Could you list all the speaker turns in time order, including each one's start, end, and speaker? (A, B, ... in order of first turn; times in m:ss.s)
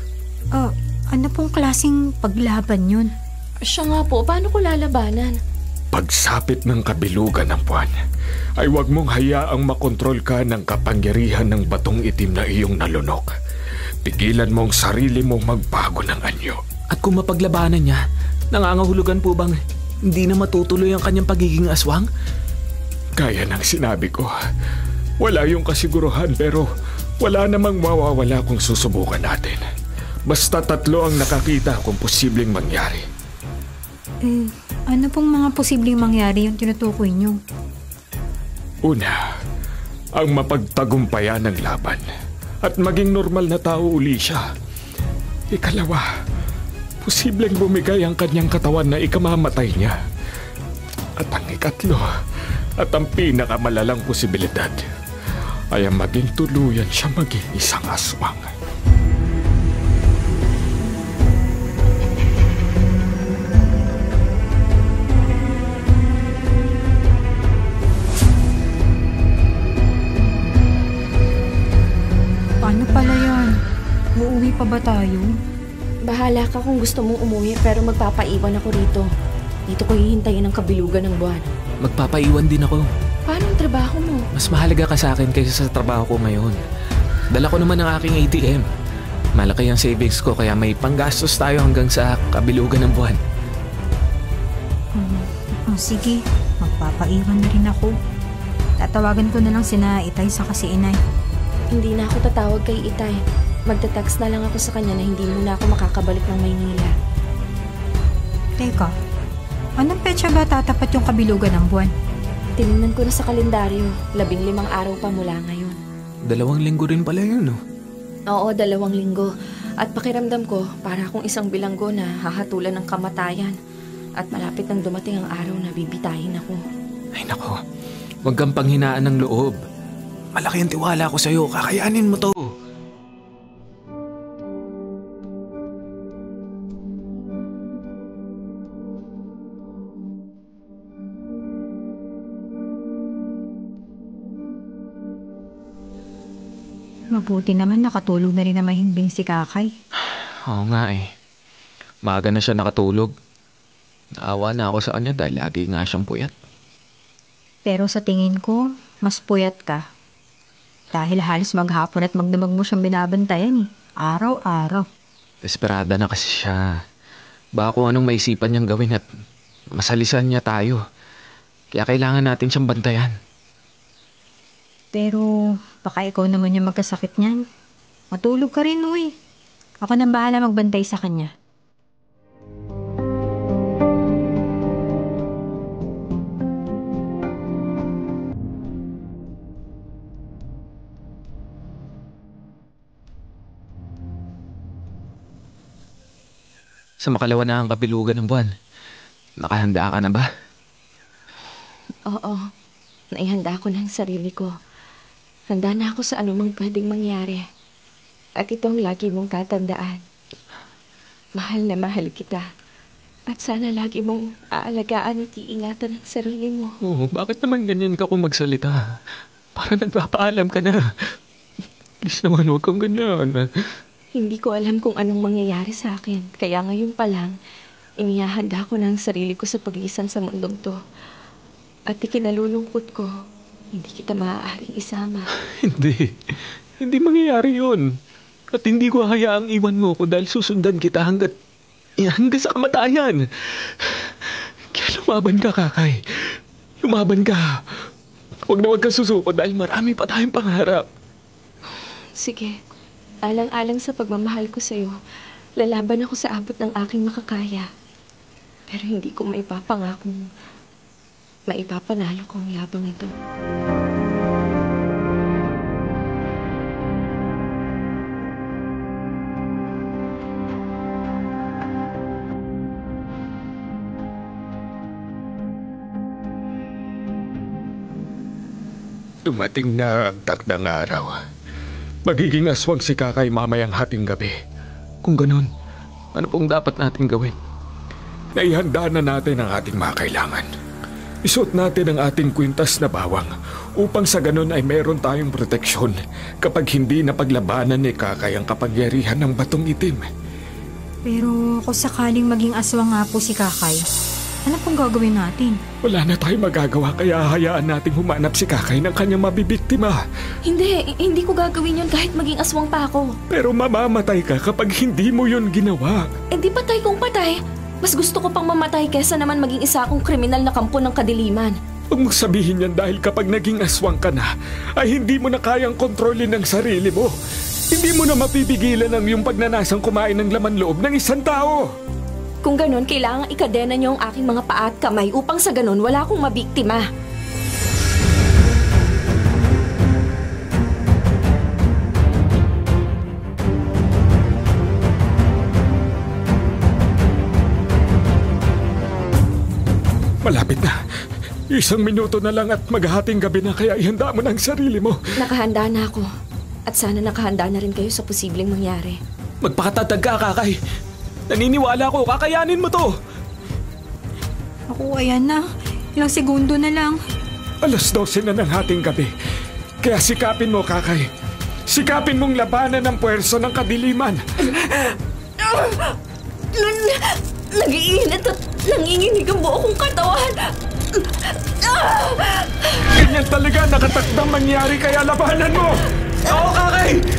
0:00.5-0:03.1 A
0:03.6-0:05.4 B
0:05.9-0:08.0 C
0:08.6-0:13.3 C
0:14.0-0:16.6 C
0:16.9-0:19.6 D
0:20.1-0:22.1 D
0:23.2-0:24.3 C
0:25.2-0:26.7 C
0:27.2-0:29.7 C
0:30.3-0:33.0 C
0:34.2-0:37.4 A
0:38.8-0:39.2 C
0:40.2-0:42.1 C
0:42.6-0:44.4 C
0:45.5-0:46.1 C
0:47.0-0:50.0 C
0:51.2-0:52.1 C
0:52.8-0:54.8 C
0:55.7-0:58.5 C
1:12.6-1:13.6 A
1:14.2-1:15.3 A
1:16.1-1:19.1 B
1:19.7-1:21.4 B
1:21.8-1:22.9 D
1:23.3-1:24.3 B
1:24.3-1:26.6 D
1:27.3-1:28.7 D
1:29.4-1:33.2 D
1:35.0-1:38.0 A
1:38.8-1:41.0 A
1:41.7-1:46.9 B
1:48.6-1:49.0 A
1:49.8-1:51.9 A
1:52.6-1:55.8 B
1:56.3-1:57.6 D
1:58.3-1:59.3 B
1:59.8-2:03.6 B
2:04.2-2:06.6 B
2:07.2-2:07.6 D
2:08.2-2:09.6 D
2:10.4-2:12.5 D
2:27.1-2:29.7 A
2:30.5-2:31.1 D
2:32.0-2:33.1 D
2:34.2-2:36.3 D
2:37.6-2:39.9 A
2:40.9-2:44.9 A
2:45.4-2:46.8 D
2:47.6-2:49.0 D
2:49.8-2:50.8 D
2:51.7-2:53.2 D
2:54.9-2:57.4 A
2:58.1-2:59.1 A
2:59.8-3:01.3 A
3:17.0-3:18.5 D
3:19.4-3:20.3 D
3:22.1-3:22.4 B
3:23.1-3:24.5 B
3:25.5-3:27.4 B
3:28.4-3:30.0 B
3:31.4-3:32.5 B
3:33.3-3:36.8 B
3:36.8-3:39.0 D
3:39.6-3:41.0 D
3:42.0-3:43.5 D
3:44.2-3:47.4 B
3:48.0-3:50.8 B
3:51.9-3:53.1 B
3:53.7-3:55.3 B
3:55.6-3:57.9 D
3:58.5-4:01.3 D
4:02.0-4:04.1 D
4:04.7-4:06.0 D
4:06.8-4:07.6 D
4:08.5-4:10.9 D
4:12.2-4:12.6 B
4:13.2-4:15.0 B
4:15.6-4:17.7 B
4:18.7-4:20.3 B
4:21.5-4:23.1 B
4:39.2-4:41.2 C
4:42.0-4:44.4 C
4:45.0-4:45.5 D
4:46.2-4:47.3 D
4:48.4-4:50.5 C
4:51.2-5:00.1 C
5:01.1-5:03.8 A
5:04.5-5:05.6 A
5:05.8-5:10.0 C
5:10.5-5:13.2 B
5:13.3-5:16.1 C
5:16.3-5:21.6 B
5:21.9-5:27.1 C
5:27.7-5:31.7 C
5:32.4-5:36.9 B
5:50.2-5:50.8 C
5:51.5-5:55.0 C
5:55.2-5:56.1 B
5:56.7-5:59.0 B
5:59.4-6:00.6 D
6:01.3-6:02.9 D
6:04.7-6:05.4 A
6:06.0-6:07.0 A
6:07.6-6:09.1 C
6:09.8-6:11.1 C
6:11.7-6:14.2 C
6:14.5-6:14.9 B
6:15.4-6:16.0 B
6:16.5-6:22.9 B
6:22.9-6:25.9 C
6:26.3-6:27.0 D